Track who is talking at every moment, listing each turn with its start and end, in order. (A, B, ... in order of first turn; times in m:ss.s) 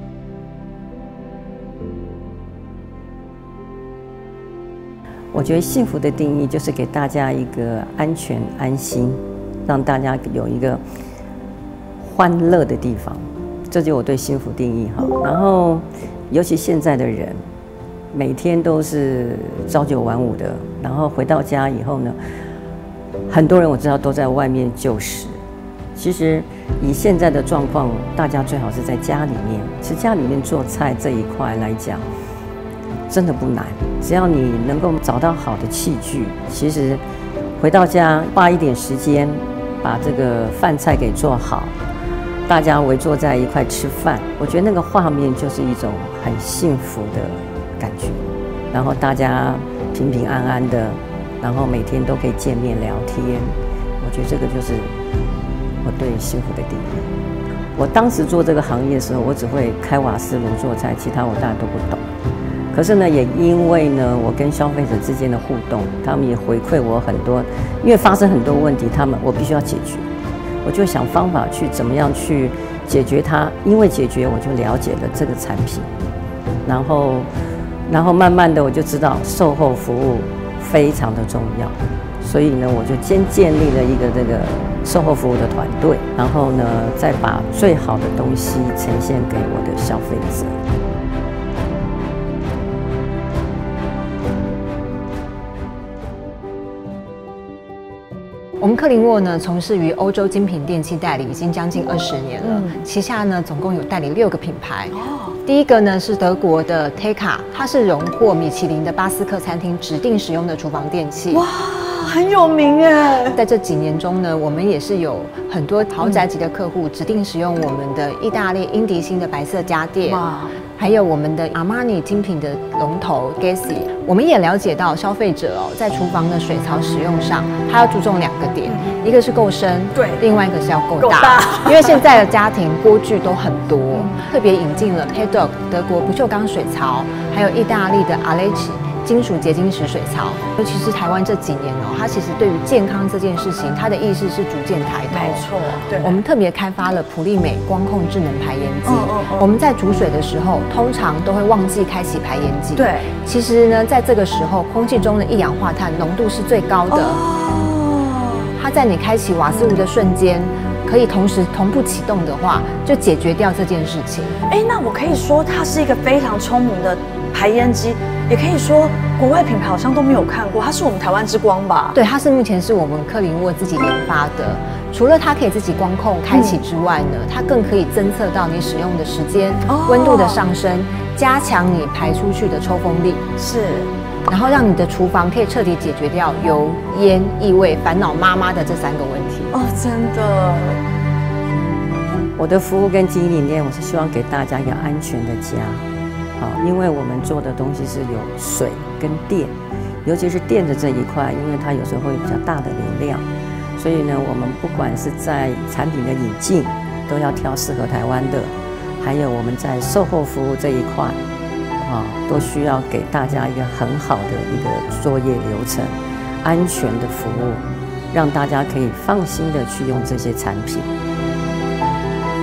0:05.3-0:10.8 A
0:12.0-0:17.4 A
0:18.1-0:22.2 A
0:23.3-0:25.4 A
0:26.0-0:32.0 A
0:33.1-0:37.0 A
0:37.6-0:41.7 A
0:42.4-0:54.9 A
0:55.8-0:57.1 A
0:57.8-1:02.0 A
1:02.7-1:10.0 A
1:10.6-1:15.9 A
1:16.6-1:17.3 A
1:17.9-1:30.6 A
1:38.6-1:51.4 B
1:42.4-1:42.8 C
1:44.9-1:45.3 C
1:51.3-1:53.4 C
1:53.3-2:00.2 B
2:00.0-2:00.6 C
2:00.8-2:37.2 B
2:11.0-2:12.0 C
2:25.1-2:26.2 C
2:28.8-2:29.5 C
2:32.8-2:33.1 C
2:36.9-2:38.5 C
2:38.6-2:44.4 B
2:39.5-2:39.8 C
2:44.5-2:52.0 C
2:51.9-3:03.2 B
2:56.3-2:56.6 C
2:59.6-3:00.4 C
3:03.4-3:03.9 C
3:04.3-3:09.5 B
3:09.5-3:10.8 C
3:12.4-3:15.8 A
3:16.4-3:19.5 A
3:20.0-3:31.2 A
3:31.8-3:40.9 A